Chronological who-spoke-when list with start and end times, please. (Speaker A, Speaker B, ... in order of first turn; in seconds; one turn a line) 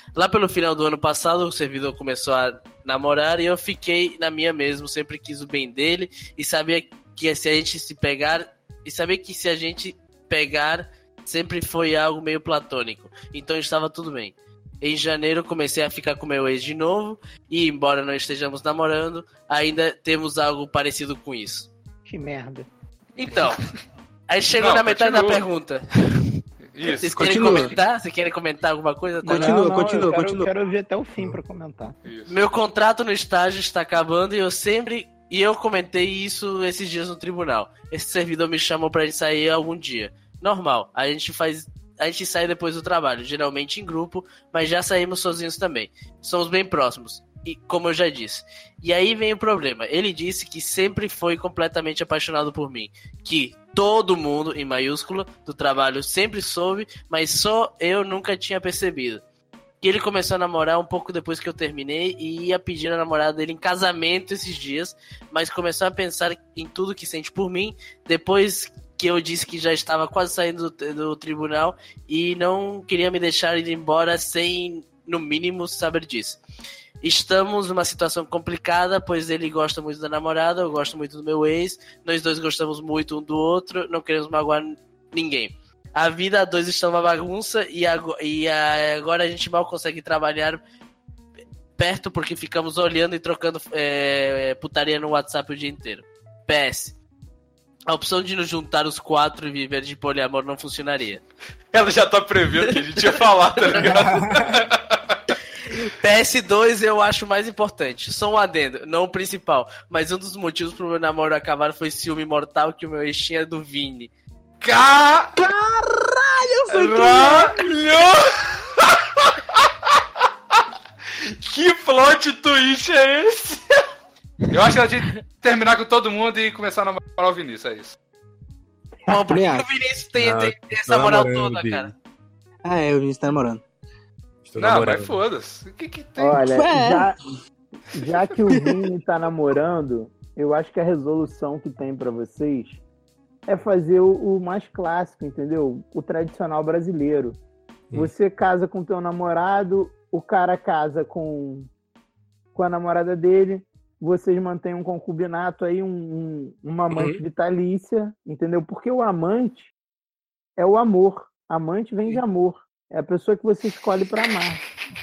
Speaker A: 0.1-21.7
Speaker B: 22.1-22.7
Speaker A: 23.1-23.6
Speaker A: 24.3-26.4
Speaker C: 24.6-25.4
Speaker C: 26.7-27.8
Speaker A: 27.0-29.6
Speaker D: 27.1-27.8
Speaker B: 29.2-32.0
Speaker D: 29.3-30.5
Speaker C: 32.0-32.4
Speaker A: 32.3-59.2
Speaker A: 59.8-76.4
Speaker A: 77.0-90.6
Speaker A: 91.8-97.0
Speaker A: 97.9-101.2
Speaker C: 101.7-105.2
Speaker A: 102.6-103.8
Speaker E: 103.8-104.6
Speaker A: 105.8-114.1
Speaker C: 114.6-115.4
Speaker D: 115.4-117.7
Speaker C: 116.7-120.0
Speaker C: 121.2-123.6
Speaker C: 124.5-128.0
Speaker A: 129.1-131.9
Speaker D: 129.3-129.7
Speaker E: 130.2-131.9
Speaker D: 132.6-133.6
Speaker E: 134.4-135.2
Speaker C: 134.6-136.4
Speaker B: 136.2-137.2
Speaker D: 136.4-137.1
Speaker B: 137.9-142.8
Speaker D: 138.5-138.9
Speaker B: 143.5-147.4
Speaker B: 147.9-151.7
Speaker B: 152.6-159.7
Speaker E: 156.9-157.2
Speaker B: 160.6-164.6